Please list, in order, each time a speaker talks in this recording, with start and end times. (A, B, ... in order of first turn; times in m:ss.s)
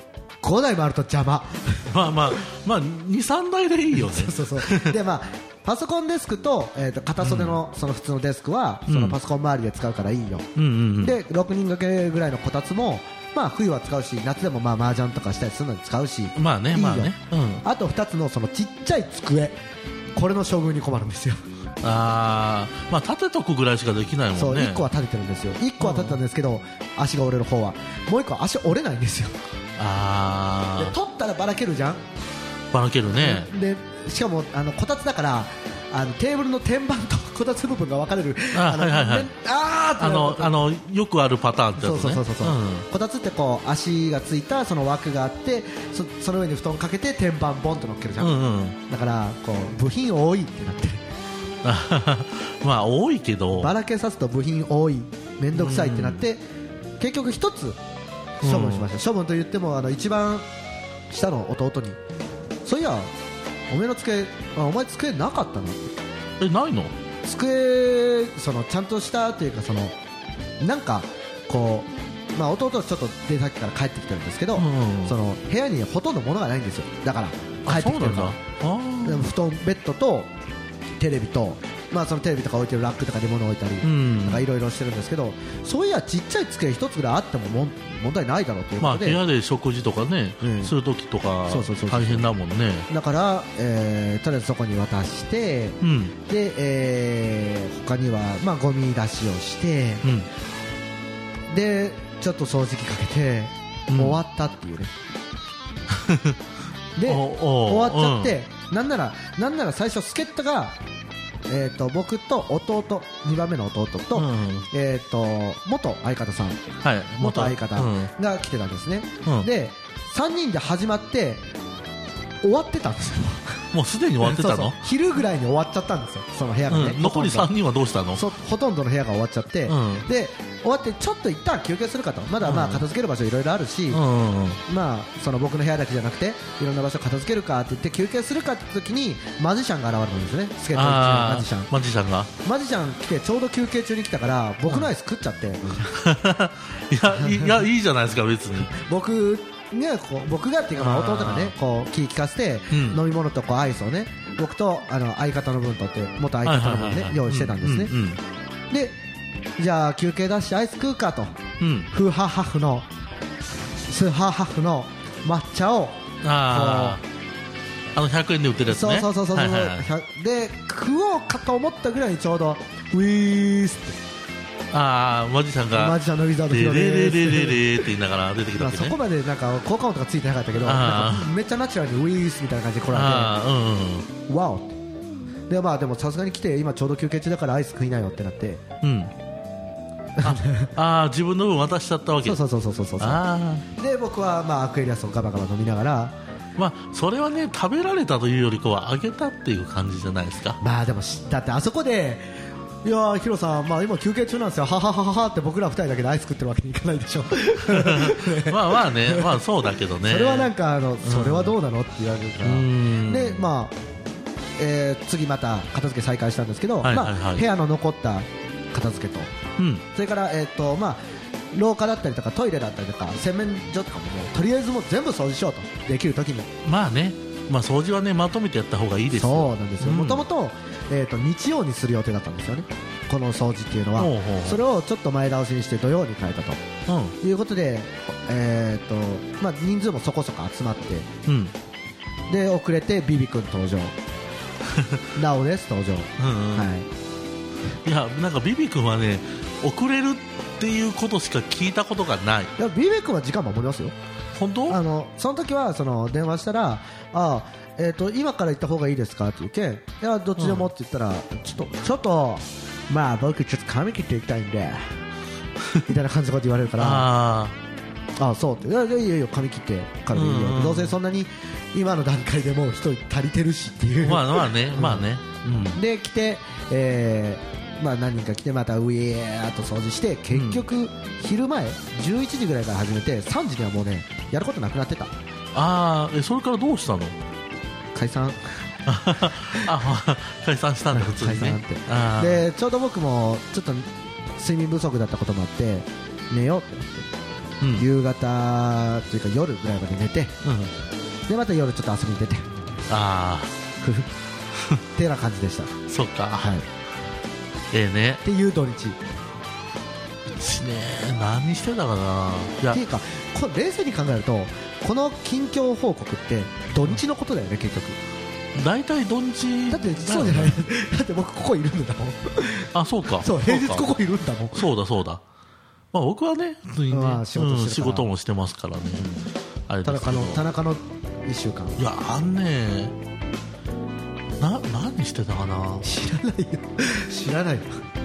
0:00.4-0:02.4 A
0:01.9-0:05.0 B
0:03.9-0:19.6 A
0:07.2-0:07.6 B
0:08.9-0:09.2 B
0:10.6-0:11.2 B
0:16.4-0:17.6 B
0:20.1-0:21.4 A
0:21.8-0:24.8 B
0:24.4-0:29.4 A
0:25.8-0:26.2 B
0:29.8-0:30.9 B
0:30.8-0:32.0 A
0:32.7-0:33.5 B
0:33.2-0:40.7 A
0:38.5-0:39.3 B
0:40.0-0:42.9 B
0:41.8-0:51.0 A
0:48.2-0:48.8 B
0:51.6-0:53.8 B
0:53.6-0:56.4 A
0:55.5-0:56.2 B
0:57.0-0:57.8 A
0:58.4-0:58.9 B
0:58.4-1:00.4 A
1:01.1-1:02.0 A
1:02.6-1:03.1 A
1:03.7-1:06.0 A
1:06.4-1:06.9 B
1:07.2-1:10.0 A
1:10.6-1:18.4 A
1:14.6-1:15.2 B
1:17.6-1:19.3 B
1:19.0-1:20.3 A
1:21.0-1:29.2 A
1:23.8-1:24.4 B
1:28.8-1:32.9 B
1:30.4-1:30.7 A
1:31.5-1:32.3 A
1:32.9-1:40.0 A
1:35.8-1:36.1 B
1:40.0-1:40.3 B
1:41.5-1:44.9 A
1:43.9-1:44.2 B
1:45.9-1:46.4 B
1:47.0-1:50.8 A
1:47.0-1:48.4 B
1:51.5-1:56.6 A
1:54.1-1:54.7 B
1:56.8-1:58.1 B
1:57.2-2:01.4 A
2:02.4-2:03.6 A
2:03.7-2:04.8 B
2:04.2-2:07.5 A
2:06.7-2:08.2 B
2:08.1-2:14.0 A
2:09.7-2:10.1 B
2:12.4-2:12.9 B
2:13.9-2:14.6 B
2:14.7-2:21.7 A
2:20.7-2:22.3 B
2:22.4-2:26.0 A
2:26.0-2:28.7 B
2:27.1-2:27.6 A
2:28.7-2:37.9 A
2:30.8-2:31.6 B
2:32.7-2:33.0 B
2:36.4-2:38.2 B
2:38.7-2:39.0 A
2:39.6-2:41.4 A
2:41.6-2:41.9 B
2:41.9-2:42.9 A
2:43.8-2:47.0 A
2:46.2-2:47.0 B
2:47.9-2:49.9 B
2:48.7-2:54.0 A
2:54.7-2:59.0 B
2:55.7-2:57.8 A
2:58.6-3:03.4 A
3:00.6-3:01.3 B
3:02.9-3:04.1 B
3:04.3-3:04.8 A
3:05.5-3:08.6 A
3:08.8-3:09.1 B
3:10.2-3:10.7 A
3:10.2-3:12.4 B
3:12.2-3:16.1 A
3:13.0-3:13.7 B
3:16.6-3:20.6 B
3:20.6-3:22.3 A
3:22.8-3:29.4 A
3:27.7-3:31.6 B
3:30.0-3:33.8 A
3:32.4-3:33.4 B
3:34.6-3:39.3 A
3:36.8-3:37.5 B
3:39.6-3:39.9 B
3:39.9-3:41.0 A
3:41.5-3:46.5 A
3:46.6-3:50.2 B
3:49.1-3:56.6 A
3:54.0-3:54.6 B
3:56.9-3:57.2 B
3:57.2-4:01.1 A
4:01.2-4:01.5 B
4:02.3-4:04.0 A
4:04.7-4:05.0 B
4:05.2-4:06.9 A
4:06.2-4:06.7 B
4:07.8-4:12.5 B
4:12.6-4:13.9 A
4:14.4-4:14.8 B
4:14.7-4:25.0 A
4:20.4-4:20.7 B
4:25.9-4:27.1 A
4:26.8-4:27.6 B
4:28.2-4:35.1 A
4:30.1-4:31.0 B
4:34.0-4:35.8 B
4:35.7-4:45.1 A
4:40.3-4:40.6 B
4:45.5-4:47.2 B
4:48.0-4:48.6 A
4:48.9-4:52.5 B
4:49.2-4:49.7 A
4:50.9-4:57.1 A
4:57.6-4:57.9 B
4:57.8-5:00.3 A
5:00.4-5:00.7 B
5:01.3-5:02.5 A
5:02.9-5:03.6 B
5:03.8-5:04.1 A
5:05.0-5:05.7 A
5:05.9-5:06.6 B
5:06.4-5:06.6 A
5:07.7-5:08.2 B
5:08.2-5:09.0 A
5:10.3-5:12.8 B
5:12.7-5:18.0 A
5:18.5-5:20.6 B
5:19.7-5:24.6 A
5:22.7-5:24.0 B
5:24.5-5:25.2 B
5:25.9-5:29.1 B
5:26.9-5:28.1 A
5:29.7-5:30.4 B
5:29.8-5:31.8 A
5:31.8-5:33.0 B
5:34.4-5:35.9 B
5:35.8-5:37.8 A